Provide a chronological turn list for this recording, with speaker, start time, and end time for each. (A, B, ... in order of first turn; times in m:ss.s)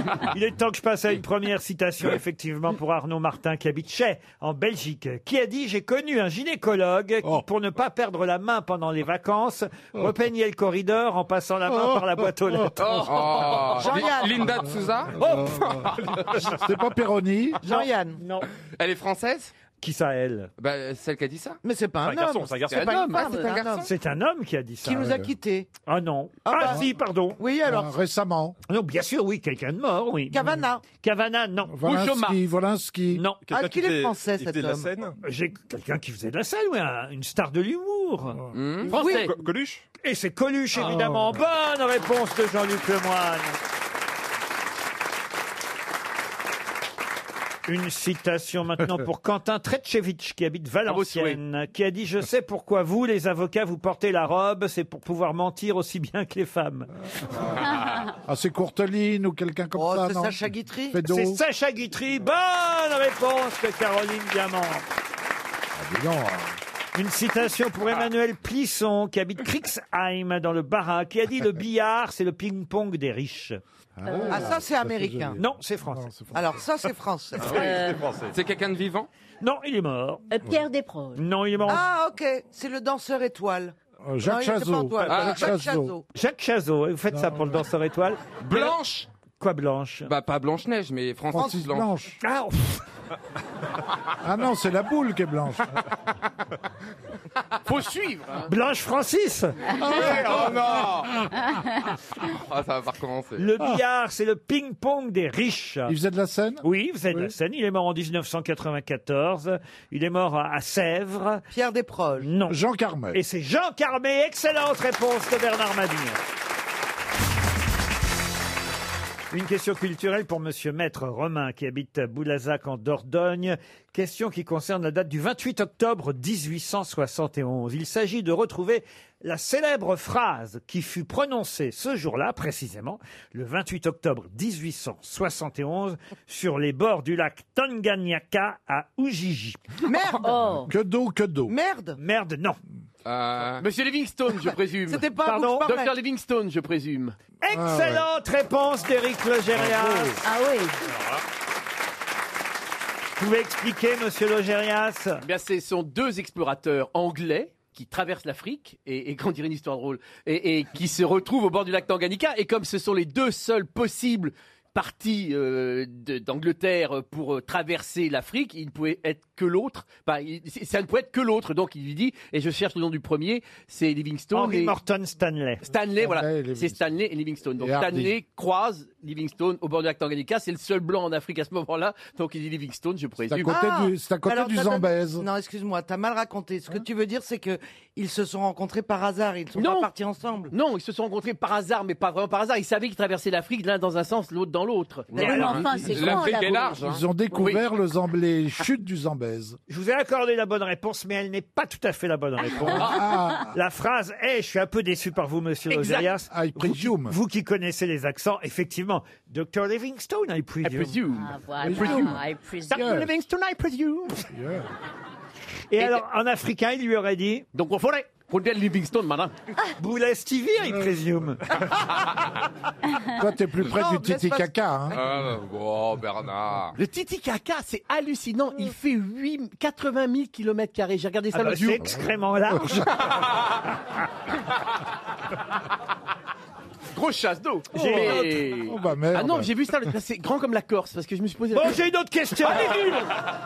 0:00.2-0:13.4 A
0:13.0-0:16.5 B
0:13.1-0:13.4 C
0:13.2-0:14.6 D
0:15.2-0:15.7 A
0:15.3-0:15.8 E
0:16.4-0:17.6 E
0:17.6-0:18.2 D
0:17.6-0:18.5 A
0:18.7-0:19.5 B
0:19.8-0:20.5 A
0:20.6-0:21.6 B
0:21.6-0:23.9 D
0:22.0-0:23.1 F
0:22.8-0:23.2 C
0:23.0-0:23.9 B
0:23.8-0:25.2 A
0:24.8-0:25.7 D
0:25.8-0:27.4 A
0:26.4-0:26.9 D
0:27.4-0:27.9 D
0:27.6-0:28.6 E
0:28.7-0:31.8 A
0:30.3-0:30.8 D
0:31.7-0:33.2 E
0:31.8-0:32.4 C
0:33.1-0:33.4 A
0:33.5-0:35.2 F
0:33.5-0:34.9 D
0:35.2-0:38.4 A
0:38.5-0:39.0 B
0:38.9-0:39.3 C
0:39.0-0:39.3 D
0:39.0-0:39.8 F
0:40.0-0:43.6 A
0:40.8-0:41.4 E
0:47.7-0:56.9 A
0:50.9-0:51.4 C
0:58.3-1:00.4 E
0:59.8-1:01.0 D
1:00.9-1:01.4 E
1:01.1-1:04.8 A
1:05.8-1:06.6 E
1:07.0-1:13.6 A
1:14.0-1:16.6 E
1:14.1-1:14.5 G
1:14.3-1:15.4 D
1:15.4-1:16.1 A
1:16.3-1:17.7 D
1:17.4-1:18.4 F
1:17.5-1:18.0 G
1:18.3-1:19.1 B
1:19.4-1:20.3 A
1:20.3-1:21.2 G
1:21.2-1:21.8 A
1:21.6-1:26.0 D
1:24.0-1:25.9 E
1:25.1-1:25.5 B
1:26.1-1:28.7 A
1:27.1-1:27.6 E
1:28.4-1:29.1 B
1:29.4-1:30.1 A
1:30.1-1:31.9 B
1:31.3-1:32.2 E
1:31.4-1:31.6 D
1:32.2-1:32.8 A
1:34.2-1:35.8 E
1:37.6-1:38.5 C
1:38.5-1:39.6 A
1:39.9-1:40.6 E
1:39.9-1:41.3 B
1:40.0-1:40.3 C
1:42.2-1:43.5 B
1:43.4-1:46.0 A
1:45.9-1:47.3 E
1:46.6-1:51.4 A
1:51.5-1:52.3 D
1:52.2-1:52.6 A
1:52.5-1:53.2 E
1:53.1-1:56.2 A
1:59.3-2:19.6 A
2:19.8-2:20.4 D
2:20.2-2:20.7 G
2:20.7-2:21.5 E
2:21.5-2:22.0 D
2:22.0-2:22.6 A
2:23.0-2:23.7 B
2:23.6-2:27.2 C
2:24.9-2:26.0 D
2:25.2-2:25.7 A
2:27.4-2:30.2 A
2:27.5-2:28.0 E
2:29.5-2:30.2 E
2:30.2-2:30.8 G
2:33.2-2:35.2 A
2:35.2-2:54.8 C
2:54.3-2:55.6 A
2:55.7-3:03.6 C
2:56.0-2:56.9 E
2:57.6-2:58.2 E
3:03.3-3:05.3 E
3:03.5-3:10.5 D
3:09.6-3:09.9 C
3:10.5-3:15.9 C
3:15.1-3:16.9 G
3:15.2-3:15.8 A
3:15.2-3:17.0 B
3:16.8-3:19.6 E
3:17.3-3:17.6 C
3:19.7-3:31.0 A
3:22.5-3:23.5 E
3:25.7-3:26.1 C
3:26.3-3:27.2 E
3:30.6-3:32.2 C
3:31.1-3:33.1 G
3:31.6-3:33.1 E
3:32.7-3:34.3 C
3:34.3-3:34.7 E
3:35.7-3:37.4 A
3:37.5-3:39.4 C
3:39.8-3:41.4 A
3:43.1-3:45.0 E
3:43.6-3:45.0 D
3:44.9-3:46.8 B
3:46.8-3:52.0 C
3:51.3-3:53.1 A
3:56.9-4:01.8 C
3:57.7-3:58.5 A
3:57.8-3:59.8 E
4:01.5-4:03.1 A
4:02.4-4:03.2 C